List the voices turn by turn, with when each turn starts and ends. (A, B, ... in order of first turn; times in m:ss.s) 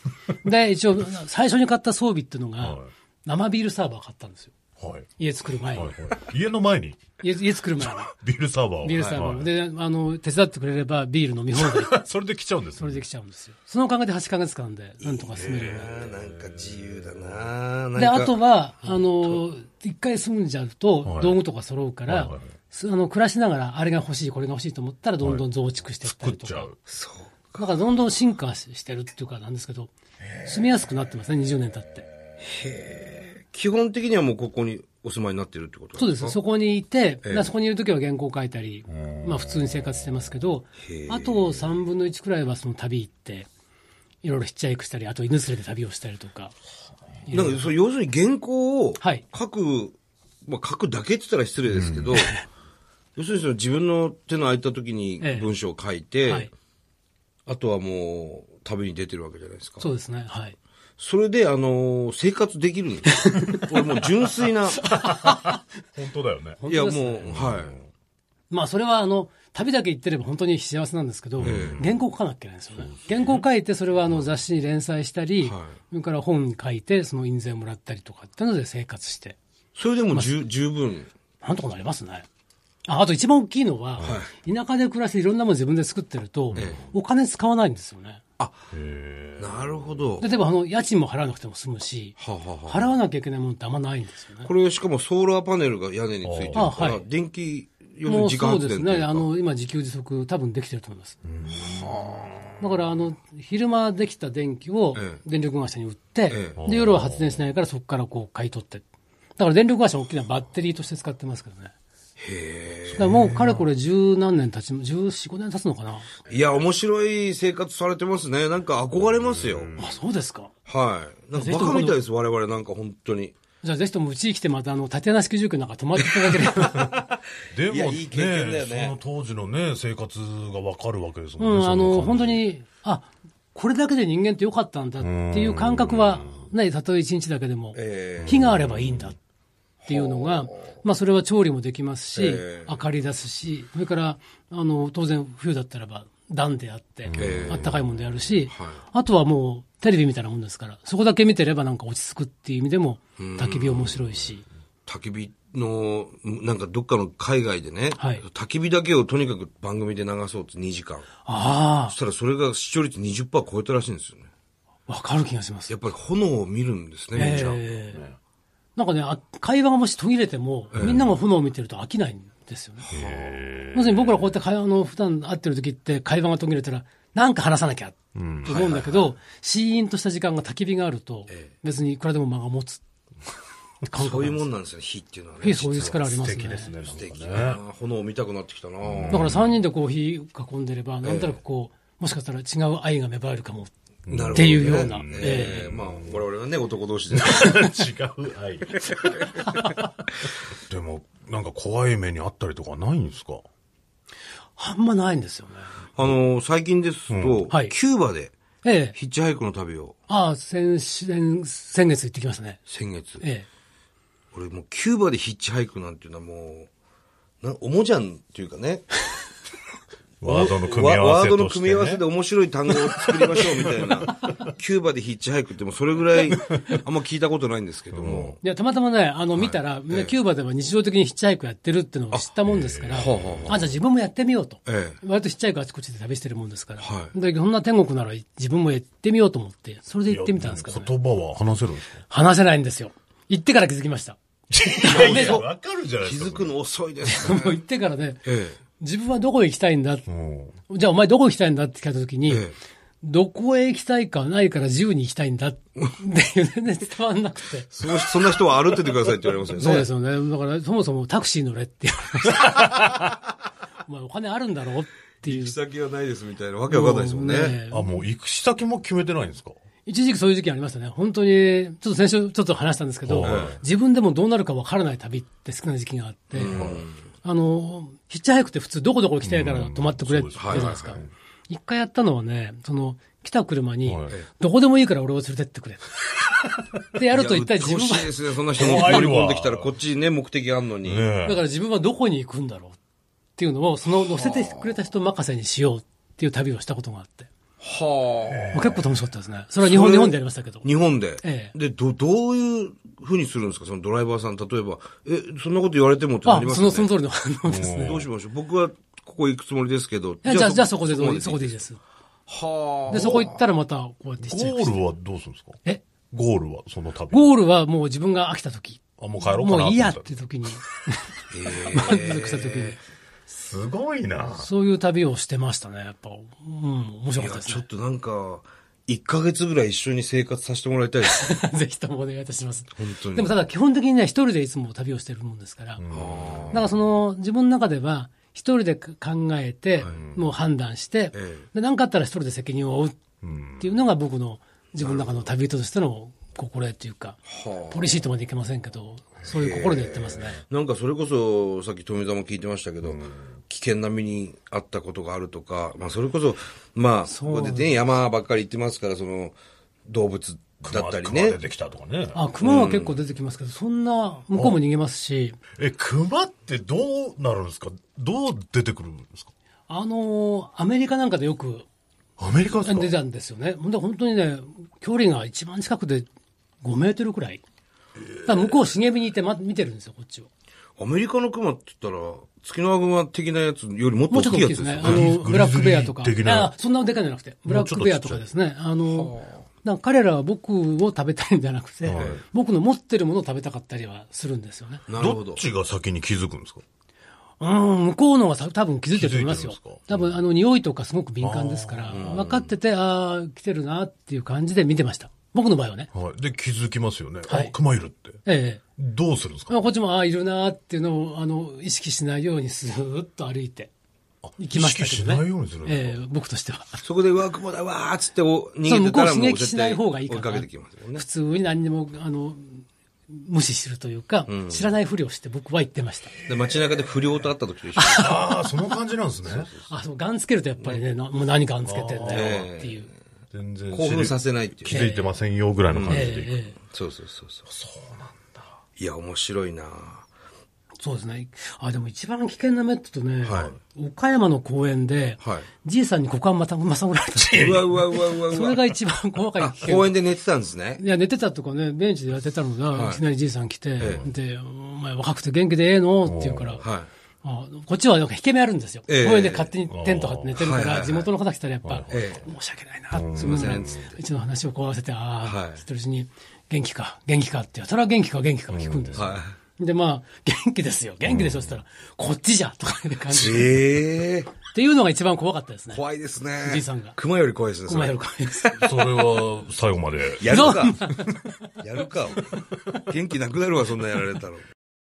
0:00.4-0:04.5 A
0:02.6-0:02.9 B
0:04.8-0:05.1 B
0:05.2-0:06.0 A
0:05.7-0:07.0 B
0:07.2-0:08.1 A
0:07.8-0:09.5 B
0:08.8-0:11.9 A
0:08.9-0:09.2 C
0:11.6-0:13.0 B
0:12.8-0:15.9 A
0:15.0-0:19.3 C
0:15.4-0:17.4 B
0:18.0-0:26.7 A
0:21.0-0:21.4 B
0:22.0-0:22.5 B
0:26.0-0:26.8 B
0:26.9-0:27.6 C
0:27.5-0:32.0 A
0:32.4-0:36.4 C
0:36.0-0:43.5 A
0:37.2-0:37.5 C
0:39.1-0:39.9 B
0:40.8-0:41.6 C
0:44.2-0:46.5 A
0:47.2-0:47.6 A
0:47.3-0:52.3 C
0:49.0-0:49.2 A
0:51.7-0:52.2 B
0:52.1-0:52.4 A
0:53.2-0:56.5 C
0:55.2-0:55.5 A
0:56.2-0:56.5 A
0:57.5-0:59.9 C
0:59.8-1:00.6 A
1:01.0-1:04.9 C
1:03.2-1:03.8 A
1:04.8-1:05.6 A
1:05.0-1:06.6 B
1:06.6-1:07.4 A
1:06.7-1:07.8 C
1:07.3-1:07.9 B
1:08.5-1:19.4 A
1:11.4-1:11.9 B
1:11.4-1:11.8 C
1:12.8-1:13.4 B
1:15.4-1:15.7 C
1:19.7-1:21.1 C
1:21.4-1:22.2 A
1:22.8-1:28.2 A
1:24.0-1:24.2 B
1:24.0-1:24.3 C
1:26.5-1:26.9 B
1:26.5-1:26.8 C
1:28.7-1:30.1 B
1:29.4-1:30.3 C
1:30.2-1:34.5 A
1:32.2-1:32.9 C
1:34.4-1:39.3 C
1:36.2-1:36.9 B
1:36.5-1:37.0 A
1:38.0-1:41.2 A
1:41.2-1:42.4 B
1:41.5-1:42.4 C
1:42.6-1:48.8 A
1:44.9-1:45.2 C
1:46.3-1:46.6 C
1:46.6-1:47.4 B
1:49.4-1:51.7 A
1:52.2-1:53.1 C
1:52.9-1:53.7 B
1:53.0-1:56.1 A
1:56.3-1:59.7 C
1:59.0-2:00.0 B
1:59.8-2:00.5 A
2:00.6-2:03.3 C
2:01.3-2:02.0 A
2:03.6-2:06.8 A
2:06.4-2:07.0 C
2:06.6-2:06.9 B
2:07.5-2:12.4 B
2:07.7-2:09.0 C
2:11.4-2:19.2 A
2:15.0-2:16.5 B
2:17.7-2:18.4 C
2:18.2-2:19.1 B
2:19.8-2:20.8 C
2:19.9-2:34.4 A
2:22.1-2:22.8 C
2:27.0-2:28.1 B
2:27.2-2:27.8 C
2:28.5-2:28.8 C
2:33.2-2:34.0 C
2:34.9-2:41.1 C
2:38.0-2:38.2 A
2:41.2-2:42.0 A
2:41.8-2:44.3 C
2:44.9-2:45.7 A
2:45.7-2:47.6 C
2:47.1-2:48.0 A
2:47.2-2:48.2 B
2:48.8-2:52.8 A
2:50.7-2:51.0 B
2:50.7-2:51.1 C
2:52.8-2:53.4 C
2:52.9-2:54.3 B
2:53.7-3:02.8 A
2:58.1-2:58.6 B
2:58.4-2:59.1 C
3:03.9-3:04.5 A
3:03.9-3:05.9 C
3:05.4-3:06.8 A
3:05.6-3:07.6 B
3:06.9-3:09.3 C
3:08.8-3:09.6 B
3:09.1-3:13.7 A
3:11.0-3:11.4 C
3:14.1-3:16.2 B
3:14.1-3:17.6 C
3:14.3-3:15.6 A
3:17.1-3:19.9 B
3:20.5-3:23.4 B
3:24.6-3:25.7 A
3:26.0-3:28.3 C
3:27.1-3:27.4 B
3:28.6-3:28.9 A
3:28.9-3:30.0 C
3:30.1-3:32.6 A
3:32.7-3:33.2 C
3:33.2-3:33.4 A
3:34.3-3:36.7 C
3:37.4-3:39.0 C
3:40.2-3:42.0 B
3:40.2-3:48.4 C
3:42.7-3:44.5 B
3:46.2-3:46.8 B
3:47.9-3:48.4 B
3:48.4-4:00.9 A
3:49.4-3:50.1 C
3:52.4-3:53.7 B
3:52.9-3:53.6 C
3:54.6-3:55.0 C
3:56.8-3:57.1 C
4:00.1-4:02.0 B
4:02.1-4:04.2 A
4:04.5-4:06.5 B
4:04.8-4:05.4 A
4:04.8-4:07.6 C
4:07.0-4:08.2 A
4:08.2-4:08.6 C
4:08.8-4:10.1 A
4:10.1-4:10.6 B
4:10.7-4:12.4 A
4:12.3-4:12.6 C
4:13.0-4:17.7 A
4:17.7-4:19.9 C
4:19.5-4:22.8 A
4:23.8-4:25.6 A
4:25.2-4:27.6 C
4:26.7-4:27.9 A
4:27.7-4:29.5 B
4:29.8-4:45.9 A
4:33.0-4:33.6 B
4:33.2-4:33.6 C
4:36.4-4:36.8 B
4:36.4-4:37.0 C
4:39.2-4:41.1 B
4:40.4-4:40.7 C
4:43.8-4:44.1 B
4:46.9-4:49.1 A
4:47.1-4:51.1 C
4:48.5-4:49.7 B
4:50.8-4:51.4 B
4:51.2-4:52.8 A
4:53.4-4:57.3 A
4:54.0-4:54.6 C
4:57.6-4:58.7 C
4:58.2-4:58.9 B
4:58.5-5:00.6 A
4:59.6-5:06.9 C
5:01.2-5:01.5 A
5:06.2-5:08.0 A
5:07.4-5:08.1 B
5:07.8-5:11.6 C
5:10.2-5:11.8 A
5:12.3-5:13.4 C
5:12.9-5:14.8 A
5:14.2-5:15.6 B
5:16.1-5:17.3 B
5:17.1-5:22.8 A
5:19.0-5:20.1 B
5:21.3-5:22.8 C
5:23.3-5:24.5 B
5:24.3-5:27.6 A
5:27.2-5:31.3 C
5:31.0-5:35.8 A
5:32.8-5:33.4 C
5:35.8-5:36.7 B
5:35.9-5:36.6 C
5:36.5-5:43.0 A
5:41.1-5:41.4 C
5:43.2-5:43.7 B
5:43.6-5:47.2 A
5:44.7-5:45.3 C
5:47.2-5:48.0 C
5:47.7-5:50.4 A
5:49.2-5:59.4 C
5:50.1-5:50.4 B
5:52.8-5:53.3 B
5:57.0-5:57.8 A
5:59.9-6:01.4 C
6:00.6-6:02.2 B
6:02.1-6:05.4 A
6:02.4-6:03.0 C
6:05.6-6:09.3 B
6:09.7-6:11.7 A
6:12.2-6:12.9 B
6:12.6-6:16.0 A
6:16.6-6:17.4 A
6:18.2-6:20.3 A
6:20.8-6:25.1 C
6:24.1-6:34.8 A
6:24.8-6:26.5 B
6:27.5-6:28.2 B
6:28.9-6:29.4 C
6:31.8-6:32.2 B
6:31.9-6:32.2 C
6:34.9-6:35.4 C
6:35.0-6:36.6 B
6:37.4-6:45.9 A
6:38.9-6:40.1 B
6:41.2-6:42.2 B
6:41.9-6:42.5 C
6:45.9-6:48.2 B
6:47.3-6:47.5 A
6:48.2-6:48.6 A
6:48.8-6:49.5 B
6:49.5-6:53.7 A
6:54.2-6:56.0 B
6:54.4-6:56.8 A
6:56.8-7:01.0 C
6:58.6-7:06.1 A
7:04.3-7:04.7 C
7:06.2-7:08.0 C
7:07.8-7:08.4 A
7:07.9-7:09.5 B
7:09.2-7:09.7 C
7:09.7-7:12.9 A
7:11.6-7:12.4 B
7:12.1-7:12.8 C
7:13.3-7:16.4 B
7:13.7-7:14.8 C
7:14.7-7:15.1 A
7:15.7-7:16.1 C
7:15.9-7:16.6 A
7:16.7-7:17.4 C
7:17.5-7:18.5 B
7:18.8-7:20.0 C
7:20.8-7:30.1 A
7:23.2-7:23.5 C
7:25.2-7:25.5 C
7:27.2-7:28.0 B
7:27.3-7:28.7 C
7:29.4-7:30.8 C
7:30.8-7:36.6 A
7:32.7-7:33.0 C
7:33.8-7:34.0 C
7:33.8-7:34.1 B
7:36.0-7:36.6 B
7:36.6-7:36.9 C
7:37.2-7:53.6 A
7:38.9-7:39.5 C
7:39.7-7:40.5 B
7:40.4-7:41.1 C
7:41.6-7:42.2 B
7:41.9-7:42.2 C
7:42.9-7:43.9 B
7:43.0-7:43.8 C
7:45.2-7:45.6 C
7:48.5-7:49.2 B
7:48.9-7:49.3 C
7:51.0-7:51.5 B
7:53.1-7:54.3 C
7:54.4-7:57.0 A
7:55.7-7:58.8 C
7:57.7-7:58.5 A
7:58.6-8:01.1 B
8:00.2-8:00.8 C
8:00.2-8:01.3 A
8:01.6-8:04.4 C